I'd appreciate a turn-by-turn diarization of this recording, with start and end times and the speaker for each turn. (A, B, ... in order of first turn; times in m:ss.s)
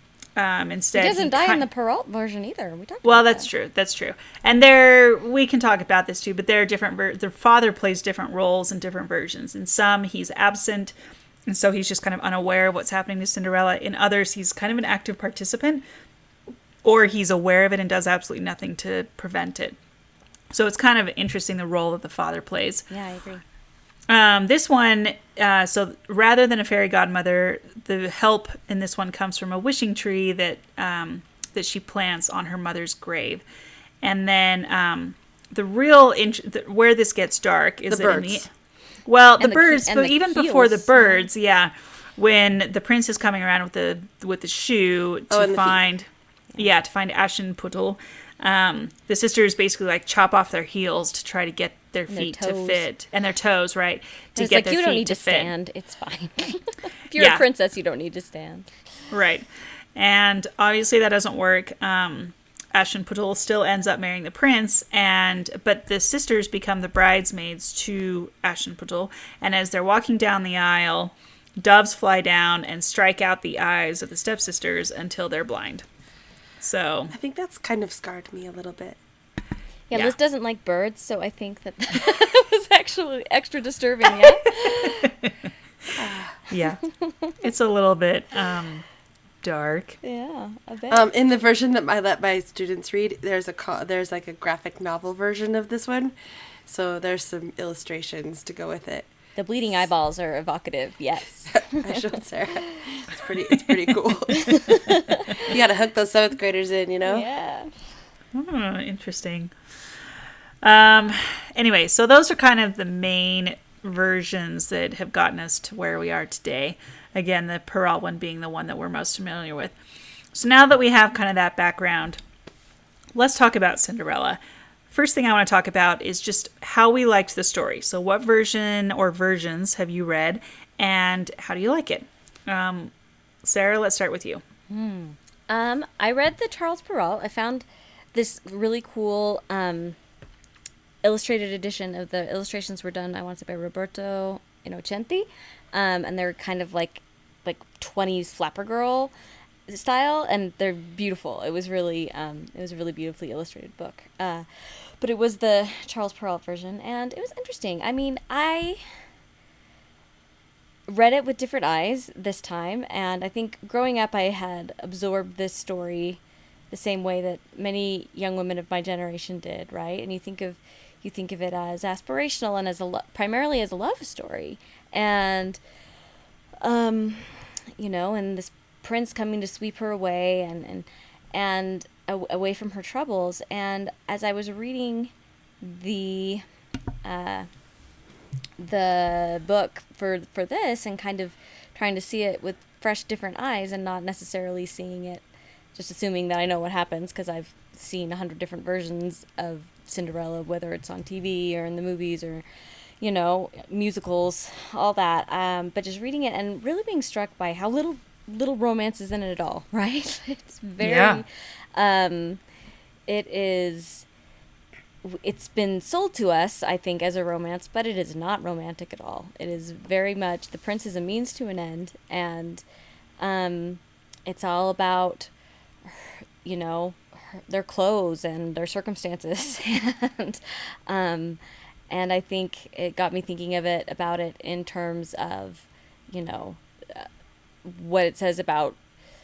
0:00.4-0:01.6 A
0:00.9-0:03.5 B
0:03.0-0:10.9 A
0:11.5-0:15.8 A
0:16.8-0:19.8 A
0:20.5-0:22.8 A
0:22.9-0:23.4 B
0:24.1-0:33.4 A
0:34.0-0:38.5 A
0:37.9-0:38.5 C
0:39.0-0:55.5 A
0:39.4-0:41.3 B
0:45.3-0:45.8 C
0:52.1-0:52.8 B
0:54.4-0:58.7 B
0:57.2-0:57.4 A
0:59.1-1:15.8 A
1:16.6-1:17.1 A
1:17.1-1:19.0 C
1:19.9-1:25.1 B
1:24.8-1:25.3 A
1:26.0-1:26.4 C
1:26.5-1:26.8 A
1:27.0-1:27.3 B
1:27.4-1:28.8 A
1:29.4-1:30.0 A
1:30.0-1:31.1 B
1:30.9-1:36.1 C
1:36.6-1:39.1 C
1:39.4-1:42.1 B
1:41.5-1:44.6 C
1:44.3-1:45.4 B
1:45.4-1:47.3 C
1:47.0-1:47.7 B
1:48.3-1:49.5 A
1:50.6-1:59.7 A
2:00.3-2:02.2 A
2:03.1-2:12.9 A
2:13.4-2:14.4 A
2:14.7-2:20.0 B
2:21.0-2:29.1 B
2:29.7-2:38.8 B
2:40.9-2:55.6 B
2:56.6-3:06.4 B
3:07.0-3:07.5 B
3:08.6-3:15.2 B
3:15.7-3:22.4 B
3:23.0-3:32.4 B
3:30.8-3:31.2 A
3:33.1-3:34.0 B
3:35.0-3:42.6 B
3:43.2-3:45.3 B
3:45.8-3:51.4 B
3:51.9-3:57.1 B
3:57.6-3:58.8 B